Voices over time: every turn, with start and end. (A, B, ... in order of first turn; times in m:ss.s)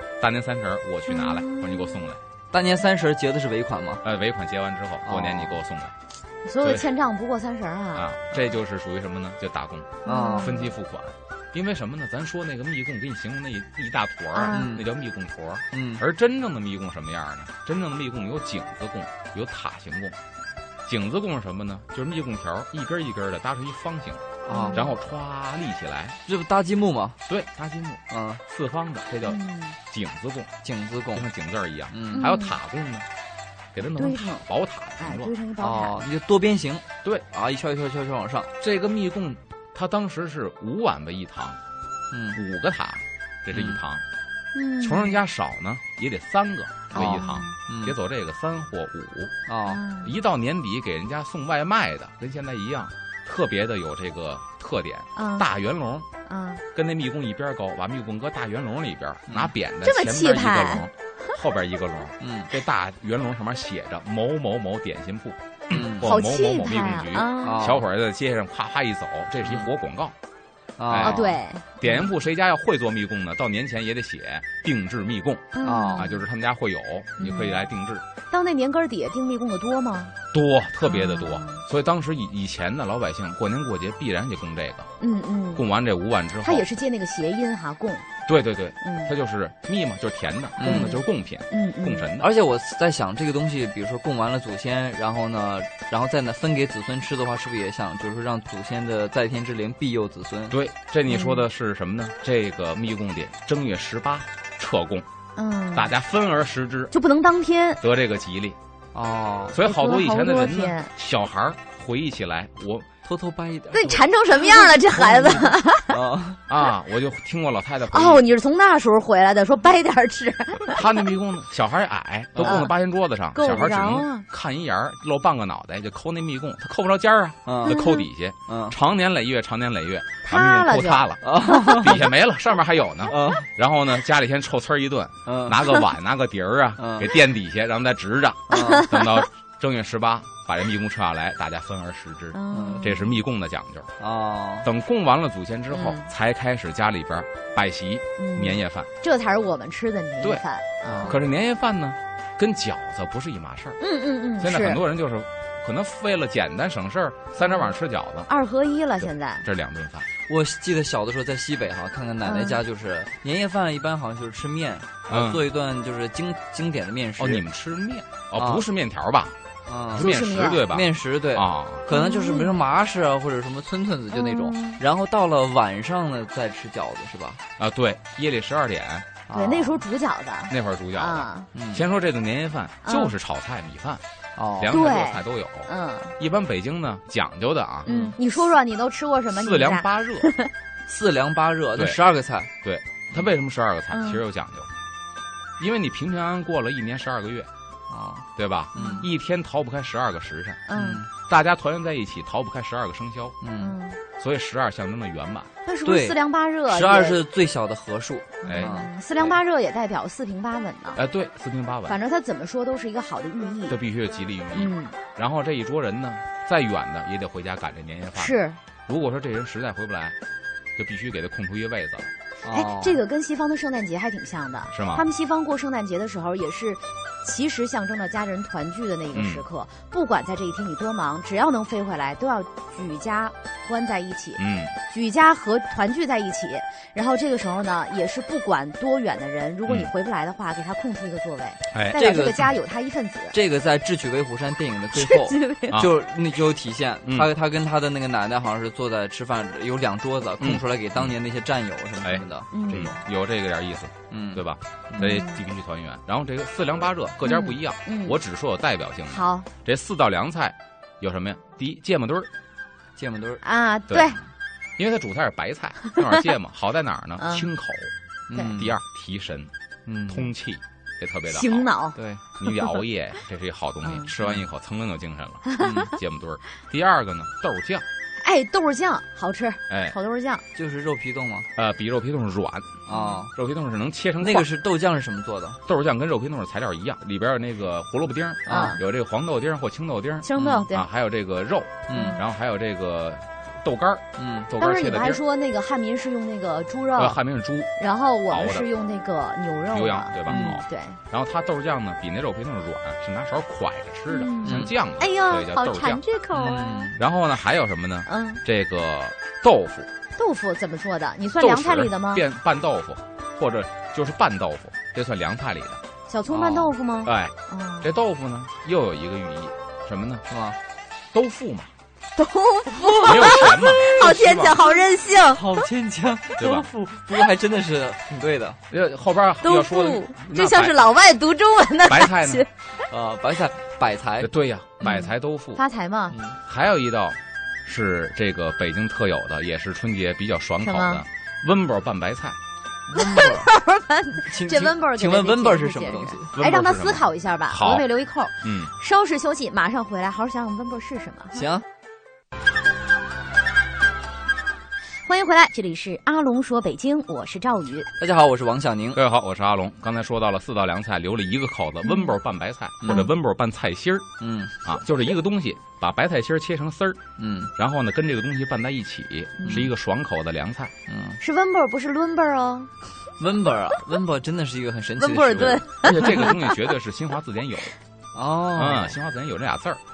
0:00.2-0:02.2 A
0:01.1-0:02.1 B
0:02.5-0:04.0 C
0:04.0-0:06.0 A
0:05.0-0:05.6 C
0:06.4-0:08.1 B
0:06.6-0:06.9 A
0:08.0-0:20.2 A
0:10.0-0:10.7 B
0:10.1-0:10.6 C
0:14.3-0:14.7 B
0:14.5-0:14.9 C
0:15.7-0:16.0 C
0:20.9-0:26.2 A
0:24.5-0:24.9 C
0:24.5-0:24.9 B
0:26.3-0:27.2 C
0:27.2-0:30.5 A
0:28.1-0:28.4 C
0:29.2-0:29.8 B
0:30.6-0:31.3 C
0:31.1-0:33.1 A
0:31.9-0:32.3 C
0:32.1-0:32.6 B
0:33.7-0:35.3 A
0:34.0-0:34.5 B
0:35.0-0:36.1 B
0:35.6-0:38.5 C
0:38.6-0:41.6 A
0:42.1-0:42.4 C
0:42.4-0:44.0 A
0:43.5-0:43.8 C
0:44.5-0:45.2 B
0:44.8-0:49.4 A
0:46.9-0:47.6 B
0:47.0-0:48.0 C
0:49.5-0:49.8 C
0:49.7-0:50.2 B
0:50.0-0:56.1 A
0:55.2-0:55.5 B
0:56.3-0:56.6 B
0:56.7-1:10.2 A
0:59.3-0:59.5 C
0:59.8-1:01.4 B
1:02.2-1:02.5 C
1:05.7-1:06.1 C
1:06.0-1:07.8 B
1:07.4-1:07.8 C
1:10.8-1:11.4 C
1:10.9-1:18.0 A
1:11.0-1:12.1 B
1:15.5-1:16.2 B
1:15.6-1:16.1 C
1:17.2-1:17.7 B
1:18.3-1:20.2 B
1:20.3-1:24.9 A
1:20.8-1:21.6 B
1:25.0-1:25.6 B
1:25.6-1:26.7 A
1:26.4-1:28.1 B
1:28.3-1:32.3 A
1:28.8-1:29.1 B
1:30.6-1:31.0 C
1:30.6-1:32.1 B
1:32.2-1:40.6 C
1:40.5-1:45.1 A
1:41.1-1:41.4 B
1:45.4-1:45.9 B
1:45.7-1:46.9 A
1:46.9-1:47.8 B
1:47.8-1:48.6 A
1:48.9-1:49.6 C
1:49.5-1:52.9 A
1:49.6-1:50.9 B
1:53.0-1:56.4 C
1:53.7-1:56.0 B
1:56.5-1:58.3 A
1:57.9-2:01.0 B
2:00.7-2:23.9 A
2:02.4-2:02.7 C
2:02.4-2:02.7 B
2:03.3-2:04.2 B
2:07.5-2:07.8 C
2:07.6-2:08.1 B
2:08.5-2:08.8 C
2:10.2-2:11.9 B
2:11.2-2:12.1 C
2:13.1-2:13.5 C
2:15.3-2:15.7 C
2:16.8-2:17.1 C
2:18.5-2:18.9 C
2:18.5-2:19.2 B
2:22.3-2:23.2 B
2:22.5-2:23.0 C
2:24.0-2:24.7 C
2:24.6-2:28.9 A
2:25.7-2:26.1 B
2:28.2-2:31.2 B
2:30.8-2:31.2 C
2:31.0-2:33.8 A
2:33.8-2:34.8 B
2:34.4-2:38.3 A
2:37.4-2:37.7 B
2:38.3-2:39.5 B
2:39.0-2:40.1 A
2:40.3-2:47.4 C
2:42.2-2:42.6 B
2:45.1-2:45.4 A
2:47.2-2:49.4 A
2:48.4-2:48.6 C
2:49.7-2:50.1 C
2:49.9-2:51.9 A
2:50.0-2:50.7 B
2:50.7-2:57.4 C
2:51.9-2:52.6 B
2:54.1-2:54.8 B
2:57.6-2:59.2 A
2:59.3-2:59.8 C
2:59.3-3:01.5 B
3:00.5-3:04.0 A
3:01.5-3:01.9 C
3:02.8-3:03.1 B
3:04.4-3:04.8 C
3:04.6-3:07.9 A
3:04.7-3:06.2 B
3:07.9-3:08.2 C
3:07.9-3:10.5 B
3:09.3-3:10.3 A
3:10.9-3:12.5 C
3:12.6-3:14.7 A
3:13.9-3:14.2 B
3:15.6-3:17.5 A
3:17.9-3:19.1 C
3:18.4-3:23.4 A
3:18.8-3:19.1 B
3:20.7-3:21.0 B
3:20.7-3:21.1 C
3:23.4-3:23.8 C
3:23.6-3:24.0 B
3:24.2-3:25.5 A
3:25.6-3:27.2 B
3:25.8-3:28.9 C
3:28.4-3:31.0 B
3:28.4-3:29.3 A
3:31.0-3:32.0 A
3:31.9-3:33.8 B
3:33.7-3:40.2 A
3:34.5-3:35.0 B
3:38.2-3:38.6 B
3:40.8-3:42.1 A
3:42.4-3:43.0 C
3:42.5-4:03.4 B
3:44.7-3:45.0 A
3:49.1-3:49.4 A
3:54.4-3:54.8 A
4:01.7-4:02.0 A
4:01.9-4:02.5 C
4:03.3-4:13.0 C
4:05.0-4:05.8 B
4:07.0-4:07.3 A
4:10.4-4:11.2 A
4:12.0-4:22.3 A
4:12.5-4:12.9 B
4:14.1-4:15.1 C
4:15.0-4:15.4 B
4:17.2-4:18.2 B
4:19.1-4:19.5 B
4:23.0-4:23.4 C
4:23.4-4:24.2 B
4:24.8-4:27.9 A
4:25.9-4:26.2 B
4:27.2-4:27.5 B
4:28.3-4:28.8 C
4:28.5-4:29.5 A
4:29.9-4:30.3 C
4:30.1-4:31.7 A
4:31.3-4:32.7 B
4:32.0-4:32.2 C
4:32.4-4:37.8 A
4:33.8-4:34.1 B
4:35.5-4:35.9 B
4:35.6-4:35.9 C
4:38.2-4:40.4 B
4:39.7-4:40.0 A
4:40.6-4:41.5 C
4:41.6-4:44.5 A
4:42.9-4:43.3 C
4:42.9-4:43.2 B
4:44.2-4:45.6 C
4:45.7-4:55.2 A
4:48.5-4:48.8 C
4:48.5-4:48.8 B
4:50.2-4:50.9 B
4:50.4-4:50.7 C
4:51.9-4:52.2 C
4:51.9-4:52.2 B
4:54.2-4:54.5 C
4:54.6-4:57.2 B
4:57.0-4:57.7 A
4:57.8-5:01.0 B
4:58.3-4:58.7 A
4:59.7-5:06.0 A
5:00.3-5:00.6 C
5:04.1-5:06.9 B
5:04.4-5:04.7 C
5:06.3-5:07.0 C
5:07.0-5:09.9 A
5:08.1-5:08.4 B
5:10.2-5:12.2 B
5:11.4-5:15.8 A
5:16.1-5:17.9 B
5:16.3-5:16.7 C
5:17.0-5:20.3 A
5:20.3-5:20.6 C
5:21.1-5:21.7 A
5:22.2-5:25.6 B
5:22.8-5:23.5 C
5:23.0-5:24.7 A
5:25.3-5:28.6 C
5:26.4-5:26.7 A
5:28.7-5:30.8 A
5:29.4-5:32.5 B
5:31.9-5:32.5 A
5:32.9-5:34.3 C
5:34.2-5:35.6 A
5:34.8-5:36.2 B
5:36.1-5:36.4 C
5:36.4-5:42.4 A
5:40.6-5:41.0 B
5:42.9-5:43.5 C
5:43.0-5:51.5 B
5:44.2-5:46.4 C
5:46.3-5:47.9 A
5:48.4-5:48.7 A
5:51.3-5:51.6 C
5:55.0-5:57.9 B
5:58.0-5:59.0 C
5:58.9-6:04.1 A
6:01.8-6:02.1 B
6:02.8-6:03.1 C
6:04.2-6:04.7 C
6:04.6-6:07.0 A
6:07.2-6:07.5 C
6:07.6-6:10.7 A
6:09.4-6:09.7 B
6:10.9-6:11.2 C
6:11.2-6:12.7 B
6:13.2-6:15.6 C
6:15.0-6:16.6 B
6:15.8-6:17.8 A
6:18.2-6:19.0 C
6:18.6-6:19.8 A